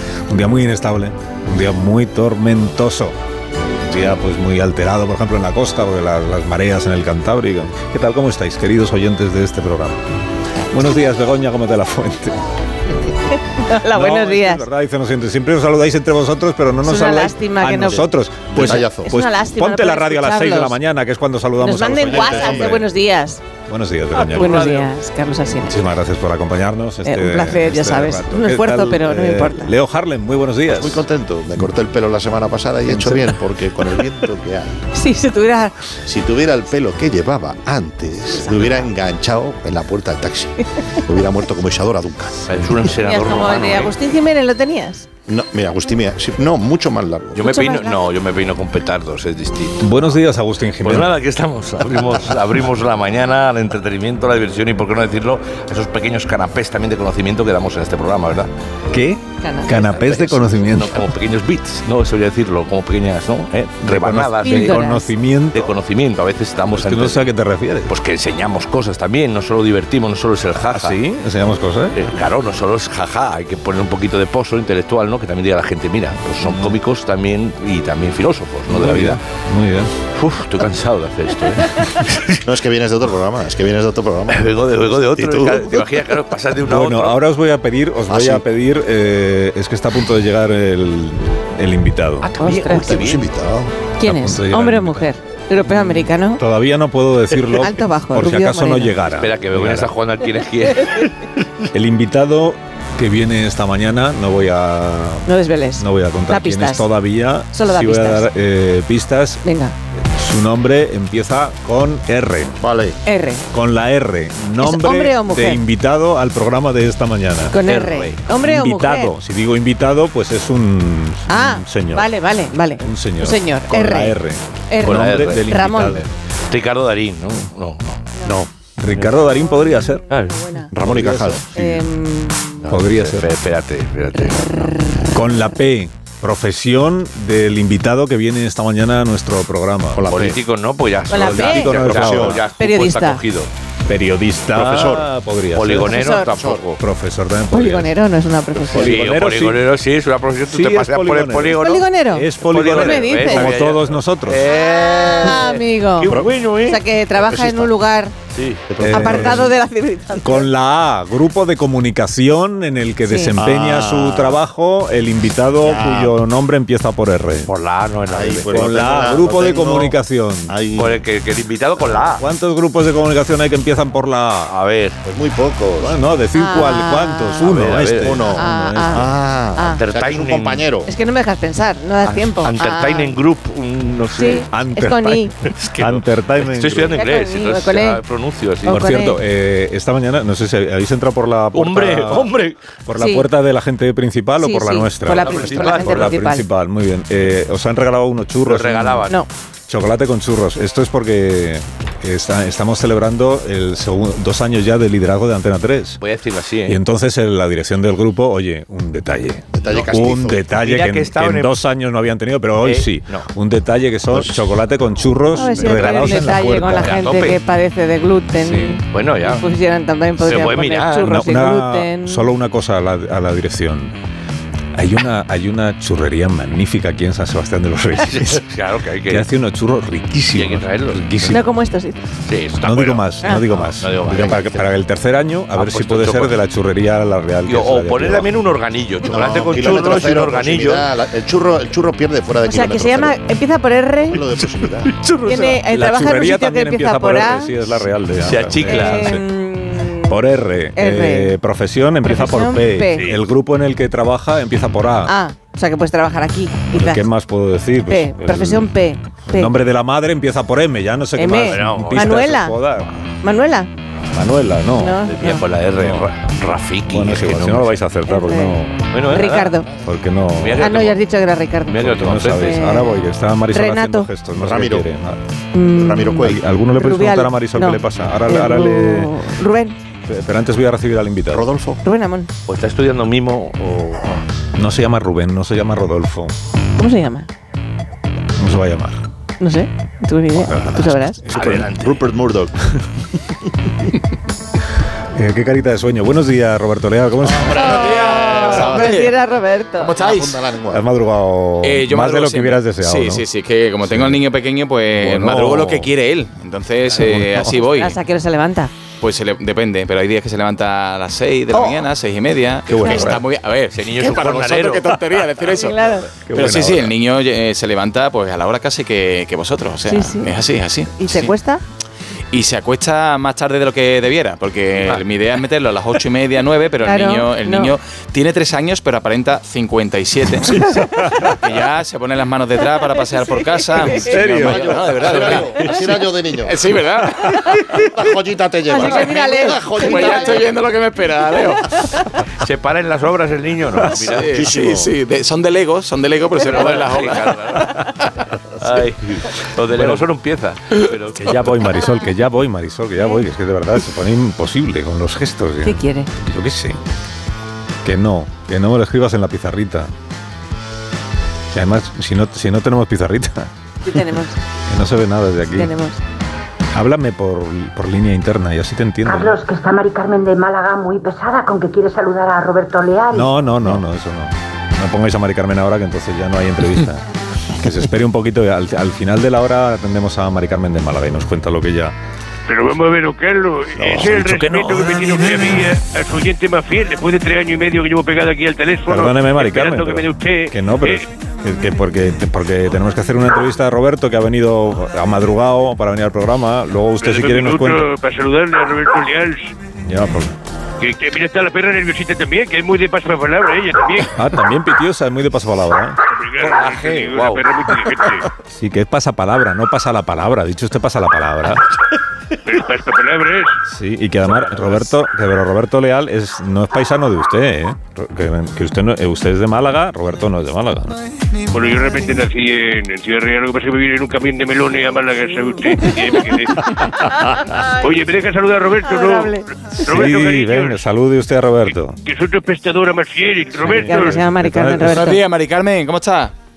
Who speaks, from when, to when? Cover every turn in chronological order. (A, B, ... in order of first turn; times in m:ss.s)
0:00.3-0:03.2 A
0:03.8-0:10.0 A
0:10.7-0:12.4 A
0:13.6-0:14.6 B
0:13.8-0:22.9 A
0:16.8-0:18.1 B
0:18.5-0:19.1 C
0:19.0-0:20.8 B
0:21.6-0:23.4 B
0:22.0-0:22.8 C
0:23.7-0:24.8 A
0:24.1-0:24.9 D
0:24.4-0:25.8 B
0:25.7-0:31.0 A
0:27.0-0:29.7 B
0:30.7-0:34.8 C
0:34.9-0:35.8 B
0:36.0-0:42.4 C
0:38.4-0:38.8 D
0:42.5-0:44.0 D
0:43.0-0:45.1 B
0:45.3-0:47.5 C
0:47.4-0:49.9 D
0:47.4-0:48.0 B
0:49.8-0:51.1 A
0:50.8-0:58.5 D
0:58.9-1:01.1 A
0:59.4-1:00.3 B
0:59.9-1:04.8 D
1:03.8-1:05.7 A
1:04.4-1:05.1 B
1:05.5-1:07.2 D
1:06.7-1:07.9 A
1:07.9-1:11.0 D
1:10.7-1:12.0 A
1:12.0-1:19.2 D
1:16.4-1:16.7 A
1:18.7-1:20.0 A
1:20.2-1:22.4 D
1:22.4-1:26.0 C
1:24.3-1:27.2 D
1:26.7-1:32.3 A
1:28.1-1:28.4 C
1:32.2-1:33.2 D
1:32.4-1:33.0 B
1:32.6-1:33.8 C
1:34.0-1:36.4 B
1:34.0-1:35.1 A
1:35.7-1:39.9 A
1:37.6-1:39.0 B
1:39.2-1:41.1 D
1:41.7-1:49.4 A
1:45.3-1:46.9 B
1:47.5-1:48.3 B
1:49.4-1:49.8 B
1:50.0-1:52.6 A
1:52.6-1:53.0 C
1:53.0-1:53.5 B
1:53.5-1:57.6 A
1:54.6-1:55.6 B
1:57.5-1:59.1 B
1:57.6-1:58.2 D
1:58.3-2:02.1 A
2:01.3-2:04.2 B
2:02.7-2:06.1 A
2:04.7-2:06.0 B
2:04.8-2:05.5 D
2:06.5-2:08.1 D
2:08.8-2:10.1 A
2:10.1-2:11.4 D
2:10.4-2:10.7 B
2:10.7-2:11.5 C
2:11.5-2:12.7 B
2:12.7-2:14.8 D
2:12.7-2:13.3 A
2:14.2-2:15.1 B
2:15.1-2:20.3 A
2:20.0-2:20.4 C
2:20.0-2:23.5 D
2:21.1-2:21.7 B
2:21.2-2:22.4 A
2:21.3-2:22.5 C
2:22.6-2:23.2 B
2:23.9-2:26.0 A
2:24.6-2:25.1 C
2:25.5-2:26.8 D
2:25.9-2:26.3 B
2:26.3-2:26.7 C
2:26.8-2:27.9 A
2:27.5-2:29.0 B
2:28.7-2:29.6 A
2:28.7-2:31.9 D
2:30.5-2:34.4 A
2:31.6-2:33.6 B
2:32.5-2:36.8 D
2:35.2-2:38.1 B
2:36.1-2:36.4 C
2:37.2-2:37.7 C
2:38.3-2:38.7 D
2:38.7-2:39.5 C
2:38.8-2:39.5 A
2:38.8-2:40.4 B
2:40.2-2:47.5 A
2:43.1-2:43.4 B
2:43.4-2:44.4 C
2:45.6-2:46.1 C
2:47.4-2:49.0 D
2:48.1-2:50.0 C
2:48.5-2:50.6 A
2:50.5-2:51.0 C
2:50.8-2:52.2 D
2:52.2-2:54.5 A
2:54.5-2:55.0 D
2:55.0-2:56.0 C
2:55.8-2:59.1 A
2:56.4-2:57.5 B
2:57.5-2:58.2 D
2:58.0-3:00.9 C
2:58.3-2:59.8 B
2:59.7-3:00.7 D
3:00.9-3:03.2 B
3:02.1-3:04.5 D
3:04.2-3:05.3 B
3:04.5-3:07.0 A
3:05.6-3:08.8 D
3:06.9-3:08.0 B
3:08.6-3:09.2 B
3:08.7-3:12.3 A
3:11.5-3:12.6 D
3:12.9-3:19.1 A
3:13.0-3:13.3 B
3:14.4-3:16.4 B
3:15.2-3:16.2 D
3:18.5-3:19.2 D
3:19.7-3:26.0 A
3:26.0-3:26.8 D
3:26.7-3:37.0 A
3:29.5-3:30.5 C
3:30.5-3:31.5 D
3:32.6-3:33.3 D
3:34.1-3:34.4 D
3:35.3-3:42.3 B
3:35.5-3:37.4 D
3:38.4-3:39.5 D
3:40.2-3:41.1 D
3:41.0-3:44.0 A
3:44.8-3:48.5 A
3:48.1-3:49.3 D
3:49.1-3:51.5 A
3:50.3-3:51.0 D
3:51.2-3:52.0 B
3:52.3-3:54.7 D
3:52.6-3:58.3 A
3:55.6-3:56.4 D
3:57.5-4:00.9 D
3:59.0-4:03.2 C
4:02.4-4:04.2 B
4:04.1-4:04.9 C
4:04.9-4:09.2 A
4:05.3-4:07.5 B
4:08.2-4:09.2 D
4:08.6-4:10.2 B
4:10.0-4:15.1 A
4:10.8-4:11.4 B
4:12.1-4:13.1 B
4:15.1-4:17.0 B
4:16.7-4:18.7 A
4:17.9-4:19.6 B
4:19.3-4:22.9 A
4:21.2-4:22.6 B
4:21.5-4:22.2 D
4:23.2-4:23.7 B
4:24.1-4:25.0 A
4:24.8-4:25.4 B
4:25.0-4:27.8 D
4:25.7-4:26.1 A
4:26.9-4:28.9 A
4:28.1-4:29.7 B
4:28.9-4:29.6 D
4:29.8-4:30.6 A
4:30.4-4:31.0 D
4:30.6-4:33.0 B
4:31.7-4:32.5 D
4:31.8-4:35.2 A
4:33.5-4:34.1 B
4:34.4-4:34.9 C
4:35.5-4:36.2 B
4:35.7-4:36.4 C
4:36.2-4:39.1 A
4:36.8-4:39.8 B
4:40.1-4:41.5 A
4:41.3-4:41.8 C
4:41.8-4:42.3 B
4:42.5-4:44.2 D
4:44.6-4:46.4 A
4:46.8-4:47.3 B
4:48.4-4:49.0 A
4:49.4-4:51.2 B
4:50.3-4:51.7 A
4:51.3-4:52.0 D
4:51.4-4:52.6 C
4:55.2-4:57.6 A
4:57.2-4:59.1 C
4:57.6-5:00.0 B
4:57.6-4:59.2 E
4:59.8-5:00.4 E
5:00.0-5:00.8 C
5:00.7-5:03.2 A
5:01.6-5:08.0 E
5:03.9-5:04.2 A
5:05.0-5:05.9 A
5:06.9-5:07.7 A
5:07.7-5:08.7 B
5:09.0-5:21.3 E
5:12.7-5:13.2 A
5:12.8-5:13.1 B
5:13.7-5:15.0 D
5:15.6-5:16.1 B
5:16.3-5:16.9 A
5:19.9-5:20.3 B
5:21.0-5:21.6 B
5:22.3-5:30.7 E
5:26.8-5:27.7 B
5:30.4-5:31.4 A
5:31.2-5:35.7 E
5:33.6-5:34.4 B
5:33.9-5:35.8 A
5:34.9-5:36.6 C
5:36.4-5:37.6 E
5:37.7-5:40.6 C
5:38.7-5:40.4 B
5:39.8-5:41.9 E
5:42.4-5:44.5 D
5:44.1-5:47.8 E
5:44.2-5:44.9 C
5:46.4-5:48.1 D
5:48.6-5:51.4 D
5:49.7-5:50.1 A
5:51.1-5:56.8 A
5:55.6-5:56.1 B
5:57.8-5:59.9 A
6:01.5-6:03.5 A
6:03.8-6:04.4 B
6:04.7-6:05.7 A
6:05.6-6:06.0 B
6:06.7-6:09.4 A
6:09.6-6:11.6 F
6:12.1-6:12.9 F
6:13.1-6:17.1 A
6:17.6-6:22.0 A
6:22.5-6:31.0 G
6:23.9-6:25.6 A
6:28.9-6:37.9 A
6:37.0-6:39.5 G
6:39.8-6:40.4 A
6:40.8-6:44.2 G
6:44.1-6:46.0 A
6:46.1-6:48.3 G
6:46.4-6:47.4 D
6:48.5-6:51.6 A
6:52.5-6:53.6 G
6:53.7-7:01.0 A
6:54.3-6:54.8 D
7:01.5-7:10.8 G
7:08.8-7:09.5 B
7:09.8-7:12.0 A
7:12.0-7:14.2 G
7:13.6-7:15.1 A
7:13.7-7:15.2 B
7:14.8-7:16.3 E